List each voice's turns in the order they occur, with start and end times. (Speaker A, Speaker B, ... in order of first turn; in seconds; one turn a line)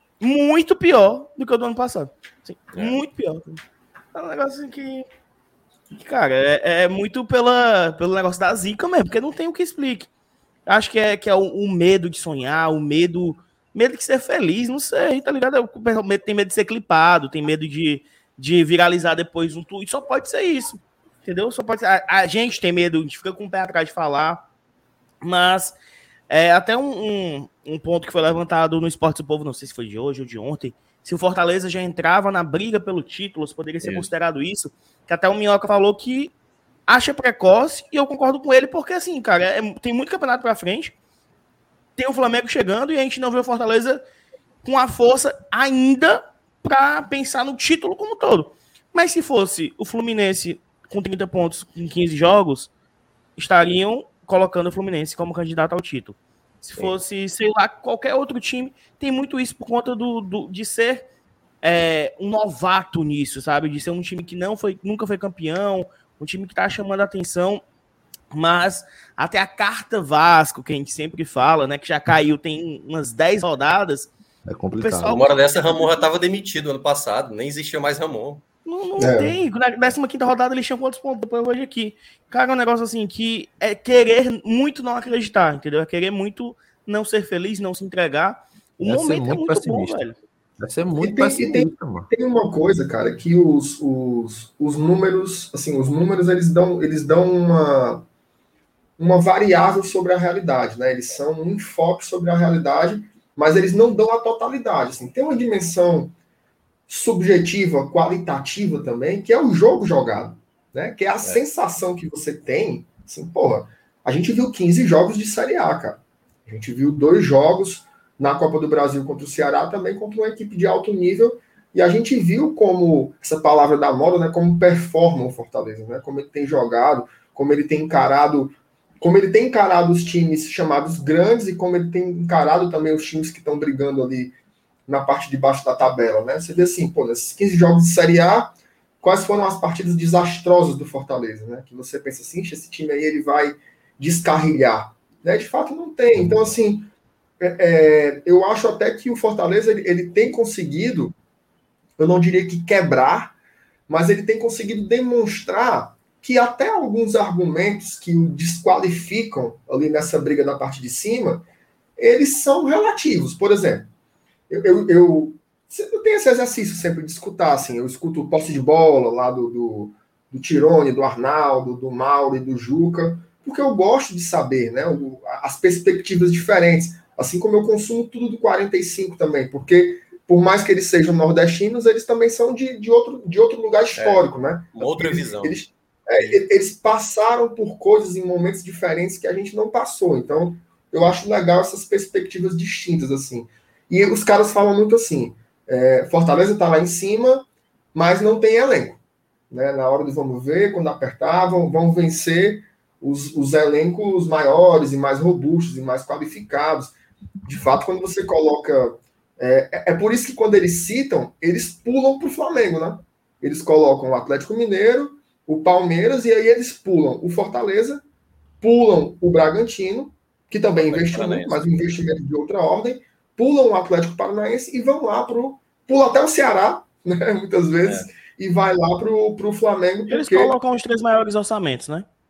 Speaker A: 0.2-3.6
Speaker A: 4.1-5.0
Speaker A: 5.9-10.1
Speaker A: 10.7-24.4
Speaker A: 25.2-25.8
Speaker A: 26.3-36.3
Speaker B: 33.8-34.1
Speaker A: 36.9-40.9
Speaker A: 42.0-44.0
Speaker A: 44.6-52.7
Speaker A: 53.4-61.0
Speaker A: 61.6-67.6
Speaker A: 68.3-74.1
Speaker C: 74.5-75.2
Speaker A: 74.8-75.3
Speaker B: 75.0-78.4
Speaker A: 78.6-90.2
Speaker D: 79.0-79.3
Speaker C: 88.8-90.0
Speaker C: 90.6-92.1
Speaker D: 91.0-98.0
Speaker D: 99.0-106.1
Speaker D: 106.9-134.3
Speaker D: 134.9-146.9
Speaker D: 147.4-151.1
Speaker D: 152.0-153.3
Speaker D: 153.9-161.4
Speaker D: 162.0-163.9
Speaker D: 164.5-206.9
Speaker B: 183.9-185.6
Speaker B: 186.2-186.4
Speaker D: 207.4-218.0
Speaker D: 218.6-230.6
Speaker B: 220.9-221.6
Speaker A: 230.1-232.1